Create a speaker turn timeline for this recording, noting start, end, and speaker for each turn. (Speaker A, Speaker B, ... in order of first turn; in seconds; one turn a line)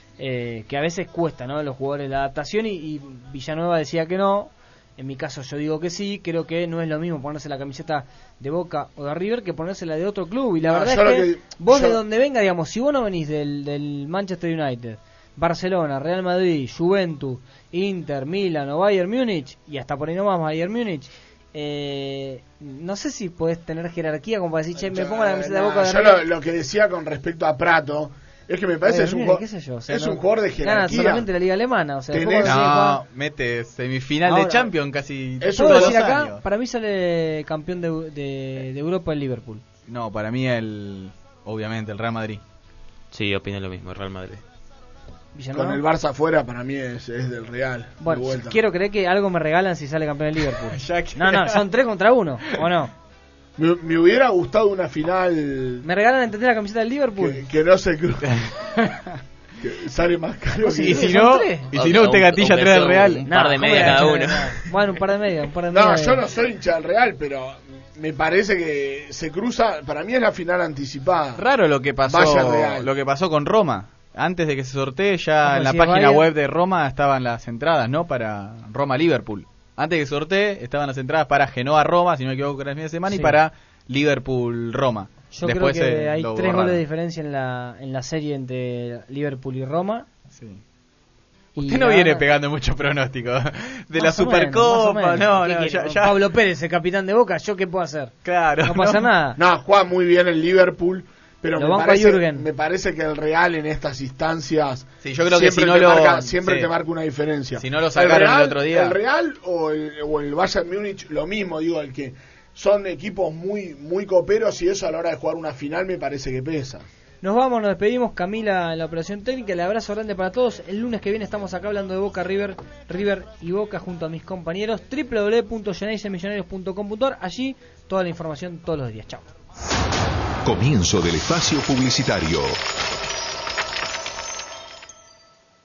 Speaker A: 0.2-26.3
Speaker B: 10.7-12.0
Speaker B: 24.8-31.3
Speaker A: 28.9-33.0
Speaker B: 32.1-32.6
Speaker C: 32.4-36.4
Speaker A: 34.3-34.7
Speaker B: 35.4-36.3
Speaker A: 35.5-39.6
Speaker C: 39.9-42.4
Speaker D: 43.1-44.4
Speaker A: 45.4-45.8
Speaker B: 45.5-48.6
Speaker A: 48.0-52.9
Speaker C: 50.6-51.6
Speaker B: 53.6-55.9
Speaker A: 55.8-57.4
Speaker B: 57.2-58.3
Speaker C: 58.2-59.0
Speaker B: 59.6-61.1
Speaker A: 60.6-61.7
Speaker C: 60.8-63.7
Speaker D: 61.7-64.5
Speaker A: 63.3-66.2
Speaker B: 65.7-71.4
Speaker C: 71.4-86.8
Speaker B: 72.1-72.9
Speaker A: 75.4-76.3
Speaker A: 83.1-83.4
Speaker A: 85.3-90.1
Speaker C: 90.3-90.6
Speaker A: 91.6-92.3
Speaker C: 91.6-96.2
Speaker A: 94.0-99.4
Speaker C: 98.2-99.0
Speaker B: 99.4-116.9
Speaker A: 101.6-102.5
Speaker C: 105.0-106.7
Speaker C: 107.6-109.0
Speaker A: 117.2-129.3
Speaker E: 130.4-132.6